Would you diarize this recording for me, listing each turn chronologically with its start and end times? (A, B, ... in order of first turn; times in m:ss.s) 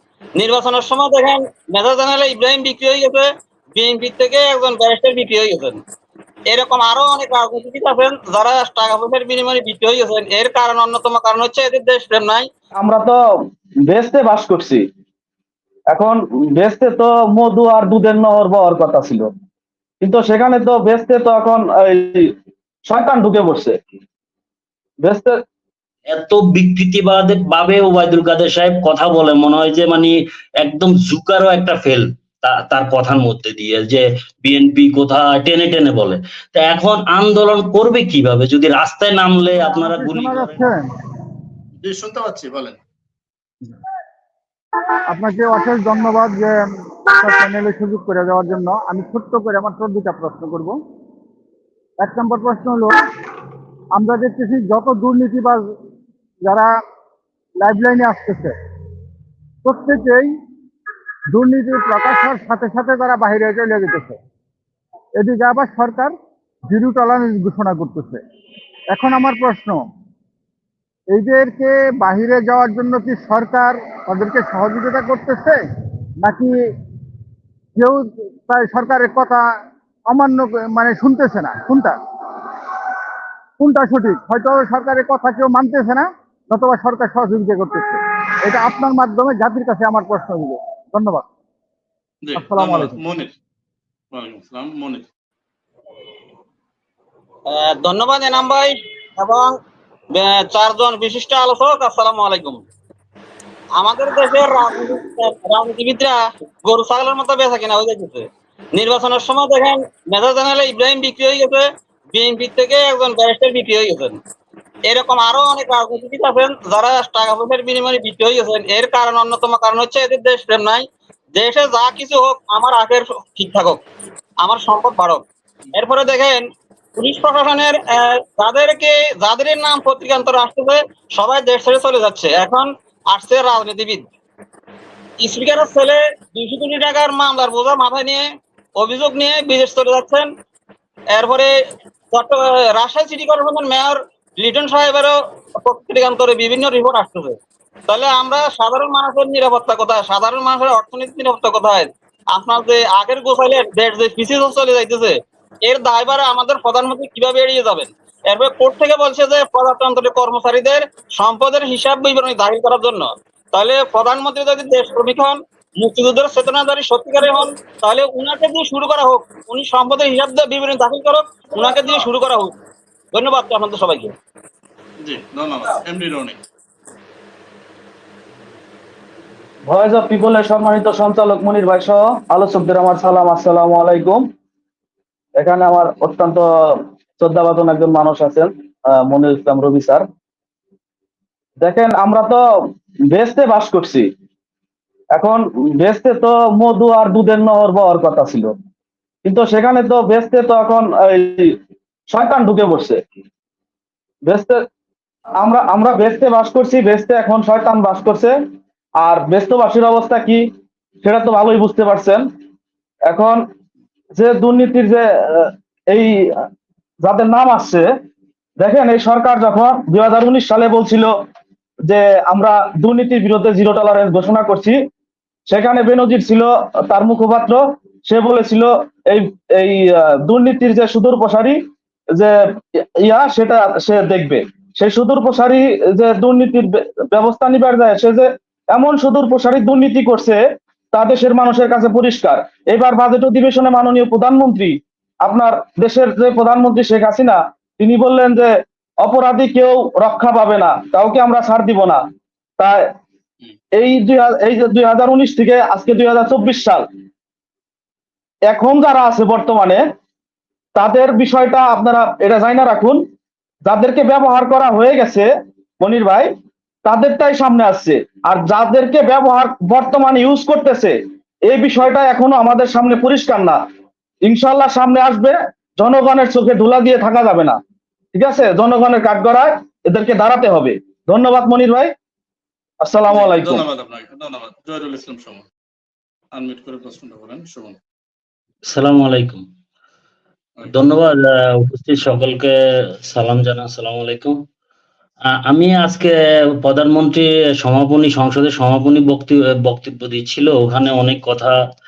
0:00.4-0:05.8 A
0:06.5-0:12.5 A
0:12.8-0:13.2 B
0:13.9-0:14.8 B
0:15.9-0:19.3 B
0:20.0-0:22.3 B
0:22.9-0:23.8 B
0:25.0-0:25.4 B
0:26.1-0:40.7 C
0:39.8-0:40.9 D
0:41.8-0:42.8 E
0:45.1-0:50.8 D
0:52.0-0:52.9 D
0:53.9-0:55.6 D
0:56.4-0:56.7 D
0:57.6-0:58.6 D
0:59.6-1:00.3 D
1:01.3-1:04.2 D
1:05.2-1:06.1 D
1:06.7-1:08.2 D
1:08.9-1:09.8 D
1:11.1-1:15.6 D
1:16.2-1:16.5 D
1:17.8-1:19.4 D
1:20.1-1:22.6 D
1:23.6-1:31.2 D
1:32.2-1:33.4 E
1:32.4-1:33.0 D
1:34.1-1:35.1 E
1:37.5-1:39.5 A
1:40.2-1:42.6 A
1:43.8-1:54.2 A
1:54.9-2:00.8 A
2:01.4-2:03.8 A
2:04.4-2:05.2 A
2:05.8-2:06.4 A
2:07.0-2:14.1 A
2:15.2-2:18.2 A
2:18.8-2:20.3 A
2:21.1-2:21.5 A
2:22.1-2:27.4 A
2:27.9-2:52.5 A
2:53.1-2:54.1 A
2:55.0-2:56.4 E
2:59.7-3:04.2 B
3:05.4-3:10.0 B
3:11.6-3:12.4 B
3:13.1-3:14.1 B
3:15.2-3:18.5 B
3:19.2-3:21.6 B
3:22.1-3:23.0 B
3:24.3-3:24.6 B
3:25.4-3:28.4 B
3:29.0-3:30.5 B
3:31.0-3:32.2 B
3:33.1-3:33.4 B
3:34.2-3:36.4 B
3:37.0-3:37.9 B
3:38.6-3:41.1 B
3:41.9-3:44.8 B
3:45.5-3:51.6 B
3:53.0-4:00.4 B
4:00.9-4:08.5 B
4:09.0-4:12.0 B
4:12.6-4:12.9 B
4:13.8-4:16.8 B
4:18.5-4:19.8 B
4:20.8-4:23.0 B
4:23.7-4:25.3 B
4:25.8-4:26.3 B
4:26.9-4:31.0 B
4:31.5-4:33.6 B
4:34.2-4:37.6 B
4:38.1-4:41.9 B
4:42.8-4:43.6 B
4:43.1-4:45.5 E
4:46.3-4:47.8 E
4:48.7-4:49.4 C
4:50.6-4:50.9 E
4:50.7-4:52.5 C
4:53.1-4:54.4 C
4:55.5-4:56.1 C
4:56.6-5:01.6 C